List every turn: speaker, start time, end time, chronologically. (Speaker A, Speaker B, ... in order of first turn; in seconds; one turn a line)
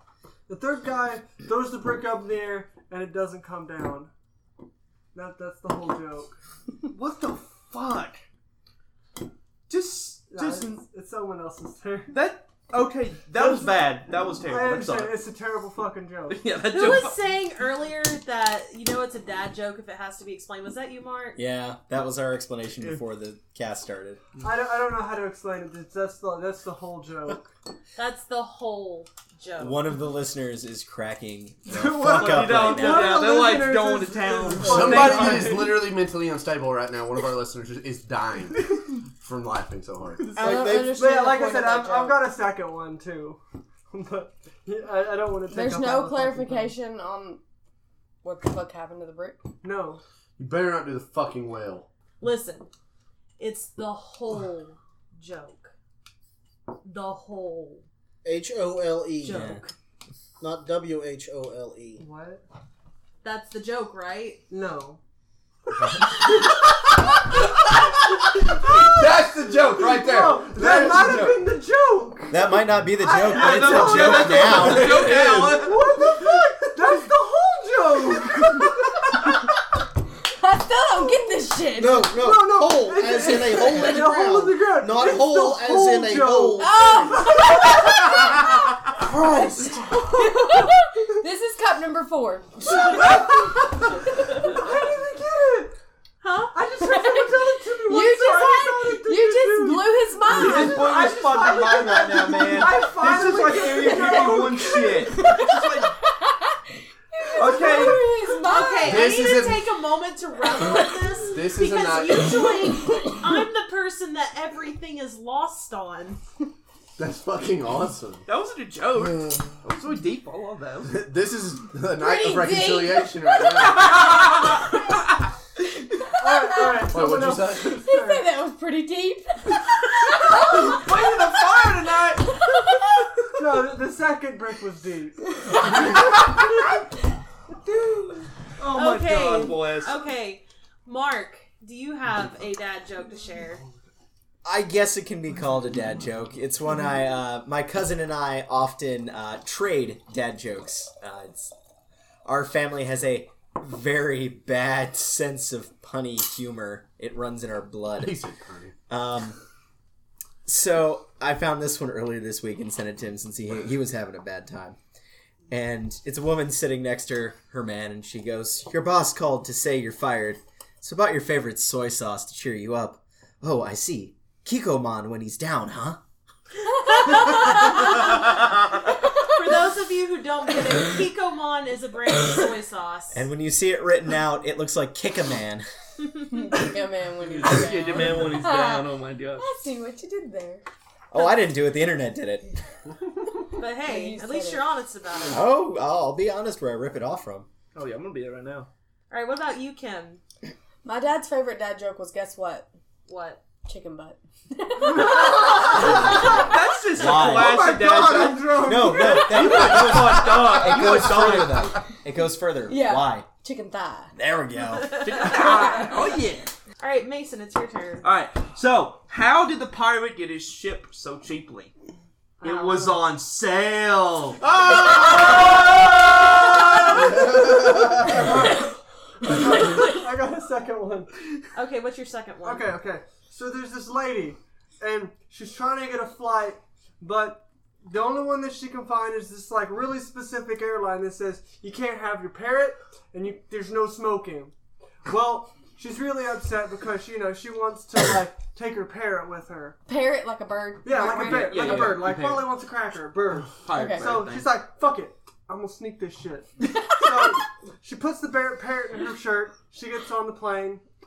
Speaker A: 0.5-4.1
Speaker A: 5.1-6.4
Speaker B: 6.9-8.2
Speaker B: 9.7-10.8
Speaker A: 10.3-12.1
Speaker B: 12.1-15.2
Speaker A: 13.3-13.8
Speaker A: 14.4-16.4
Speaker B: 16.3-17.3
Speaker C: 16.7-21.4
Speaker D: 21.3-24.2
Speaker A: 24.4-27.5
Speaker C: 27.9-29.8
Speaker D: 29.6-33.2
Speaker A: 31.7-35.9
Speaker B: 32.0-35.3
Speaker E: 34.6-40.3
Speaker F: 40.3-42.2
Speaker G: 40.4-40.9
Speaker A: 40.4-46.7
Speaker F: 45.5-47.4
Speaker F: 48.2-49.4
Speaker A: 49.6-50.0
Speaker E: 50.4-51.9
Speaker C: 52.2-52.7
Speaker C: 53.4-55.7
Speaker C: 56.8-57.8
Speaker G: 58.2-59.4
Speaker C: 59.2-59.7
Speaker D: 59.3-59.6
Speaker G: 60.4-62.0
Speaker A: 62.0-62.4
Speaker C: 63.2-64.4
Speaker A: 64.5-65.0
Speaker A: 68.6-78.8
Speaker E: 68.7-71.5
Speaker D: 72.3-75.0
Speaker B: 73.3-76.1
Speaker E: 74.9-75.5
Speaker F: 80.4-82.0
Speaker G: 81.8-87.2
Speaker A: 82.0-87.5
Speaker F: 83.2-84.0
Speaker F: 86.6-87.7
Speaker A: 89.6-90.0
Speaker F: 90.0-93.0
Speaker A: 92.7-93.5
Speaker A: 94.4-95.7
Speaker C: 96.2-96.5
Speaker A: 96.5-105.2
Speaker F: 96.8-101.0
Speaker B: 100.3-105.9
Speaker F: 105.2-109.1
Speaker B: 107.3-108.0
Speaker C: 108.4-116.2
Speaker E: 108.8-109.7
Speaker E: 111.3-112.5
Speaker E: 117.0-118.2
Speaker B: 118.3-120.9
Speaker E: 120.8-123.9
Speaker F: 122.0-123.6
Speaker B: 123.7-124.6
Speaker A: 126.2-128.3
Speaker F: 126.3-126.9
Speaker E: 126.9-127.7
Speaker F: 127.7-129.6
Speaker F: 130.1-131.6
Speaker B: 130.2-132.4
Speaker F: 132.4-132.8
Speaker A: 133.3-136.4
Speaker A: 137.7-138.2
Speaker B: 138.6-139.9
Speaker C: 138.7-143.6
Speaker D: 144.4-151.5
Speaker D: 152.2-158.2
Speaker E: 158.0-158.7
Speaker D: 158.9-159.4
Speaker D: 160.4-164.8
Speaker D: 165.5-176.0
Speaker C: 176.8-178.2
Speaker C: 179.3-183.2
Speaker D: 183.1-185.7
Speaker F: 186.3-190.6
Speaker B: 187.4-189.5
Speaker D: 191.1-192.5
Speaker C: 193.6-195.5
Speaker F: 193.8-194.7
Speaker D: 195.3-197.5
Speaker B: 197.7-198.7
Speaker C: 199.1-200.2
Speaker F: 200.8-202.7
Speaker C: 203.1-203.4
Speaker F: 203.6-205.4
Speaker A: 204.9-206.1
Speaker B: 206.0-211.7
Speaker D: 206.9-207.7
Speaker A: 207.1-209.9
Speaker D: 208.6-213.3
Speaker F: 212.7-214.1
Speaker D: 214.1-215.1
Speaker C: 214.9-215.5
Speaker B: 215.0-216.5
Speaker C: 216.8-218.1
Speaker B: 218.0-221.7
Speaker B: 222.4-227.6
Speaker C: 222.4-222.8
Speaker A: 222.5-222.9
Speaker A: 227.1-231.3
Speaker C: 231.5-232.7
Speaker A: 232.4-244.5
Speaker A: 245.1-249.8
Speaker F: 249.9-252.0
Speaker A: 250.8-260.8
Speaker B: 250.9-252.5
Speaker B: 253.6-254.5
Speaker F: 253.7-254.2